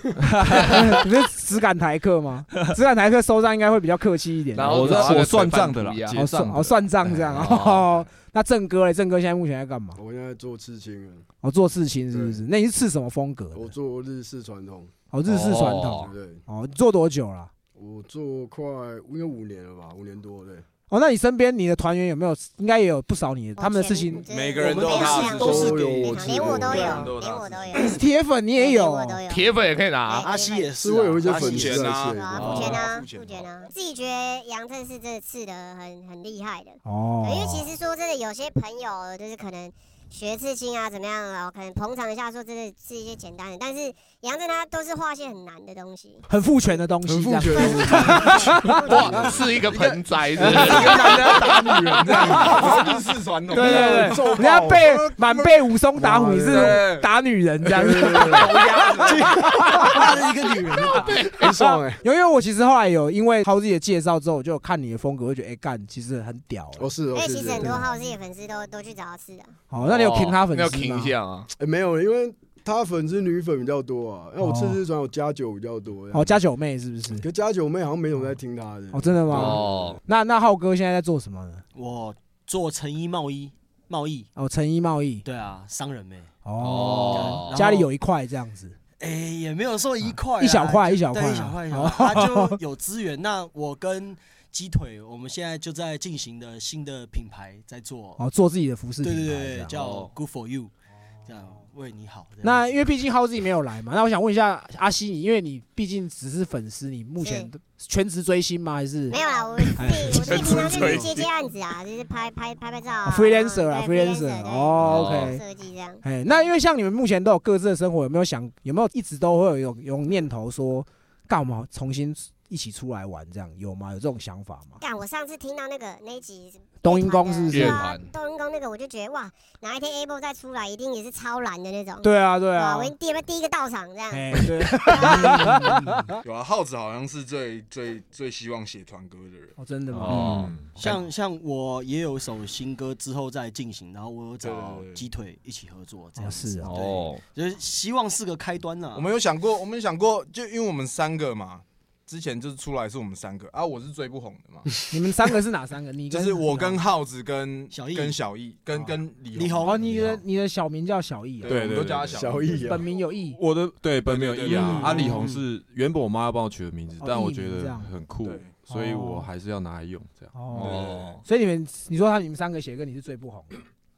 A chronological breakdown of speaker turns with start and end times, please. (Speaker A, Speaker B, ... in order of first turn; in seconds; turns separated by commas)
Speaker A: 0.2-1.1, Speaker B: 0.5-5.2, Speaker C: 4.5-6.2, Speaker A: 4.6-7.5, Speaker B: 6.1-10.0, Speaker C: 7.3-7.8, Speaker D: 9.9-11.2, Speaker B: 11.4-13.7, Speaker D: 12.1-12.4, Speaker D: 13.5-14.9, Speaker B: 15.1-17.5, Speaker C: 15.2-16.1, Speaker D: 16.0-16.4, Speaker D: 17.7-20.6, Speaker B: 20.9-24.2, Speaker E: 23.6-28.0, Speaker F: 24.3-27.8, Speaker G: 24.6-27.1, Speaker D: 25.0-27.1, Speaker B: 27.7-29.2, Speaker E: 28.6-30.7, Speaker C: 29.3-30.3, Speaker G: 30.2-32.8, Speaker D: 30.8-32.7, Speaker F: 31.3-33.5, Speaker E: 32.0-46.2, Speaker B: 36.8-37.7, Speaker B: 46.3-48.9, Speaker D: 47.0-49.6, Speaker C: 48.7-51.3, Speaker F: 49.6-55.5, Speaker B: 50.4-52.8, Speaker D: 50.4-53.0, Speaker D: 53.5-55.3, Speaker B: 53.5-60.1, Speaker D: 56.0-56.8, Speaker F: 56.4-57.1, Speaker D: 57.8-58.6, Speaker F: 58.2-59.2, Speaker G: 59.0-61.2, Speaker D: 59.6-60.2, Speaker D: 60.7-62.0, Speaker C: 61.1-61.6, Speaker B: 62.0-66.9, Speaker D: 66.8-67.8, Speaker E: 67.1-69.5, Speaker B: 67.6-67.8, Speaker B: 69.7-71.1, Speaker C: 69.8-71.5, Speaker D: 71.6-76.4, Speaker B: 74.4-74.8, Speaker B: 76.1-77.2, Speaker D: 77.2-80.0, Speaker B: 78.9-81.6, Speaker C: 79.3-80.0, Speaker G: 81.7-84.3, Speaker B: 84.3-85.2, Speaker G: 85.2-86.3, Speaker B: 86.4-88.8, Speaker C: 86.6-87.5, Speaker G: 86.8-87.9, Speaker G: 89.0-98.2, Speaker B: 90.4-92.6, Speaker B: 98.2-99.7, Speaker G: 99.0-100.7, Speaker C: 99.7-100.1, Speaker G: 101.2-102.7, Speaker B: 102.4-109.2, Speaker E: 107.2-107.5, Speaker E: 109.1-116.0, Speaker B: 109.8-111.0, Speaker C: 110.0-111.2, Speaker B: 113.0-115.4, Speaker C: 114.8-115.3, Speaker B: 116.0-124.8, Speaker E: 124.8-135.6, Speaker B: 126.8-127.8, Speaker C: 127.5-128.1, Speaker B: 132.0-132.9, Speaker B: 134.1-136.2, Speaker G: 135.0-136.0, Speaker F: 136.2-139.5, Speaker B: 139.6-140.9, Speaker C: 140.0-140.5, Speaker A: 140.1-140.7, Speaker G: 140.8-149.1, Speaker F: 144.4-145.1, Speaker B: 146.2-146.7, Speaker C: 146.6-147.2, Speaker F: 148.9-154.7, Speaker B: 154.9-156.8, Speaker F: 156.1-160.2, Speaker G: 157.7-158.2, Speaker G: 159.3-159.8, Speaker B: 159.6-161.6, Speaker F: 161.4-162.8, Speaker A: 161.4-162.2, Speaker D: 162.1-162.8, Speaker B: 162.5-163.4, Speaker A: 163.3-171.2, Speaker F: 164.0-165.3, Speaker G: 164.5-165.4, Speaker B: 167.0-167.9, Speaker F: 168.2-168.6, Speaker B: 168.7-169.3, Speaker B: 170.3-173.6, Speaker C: 170.6-171.2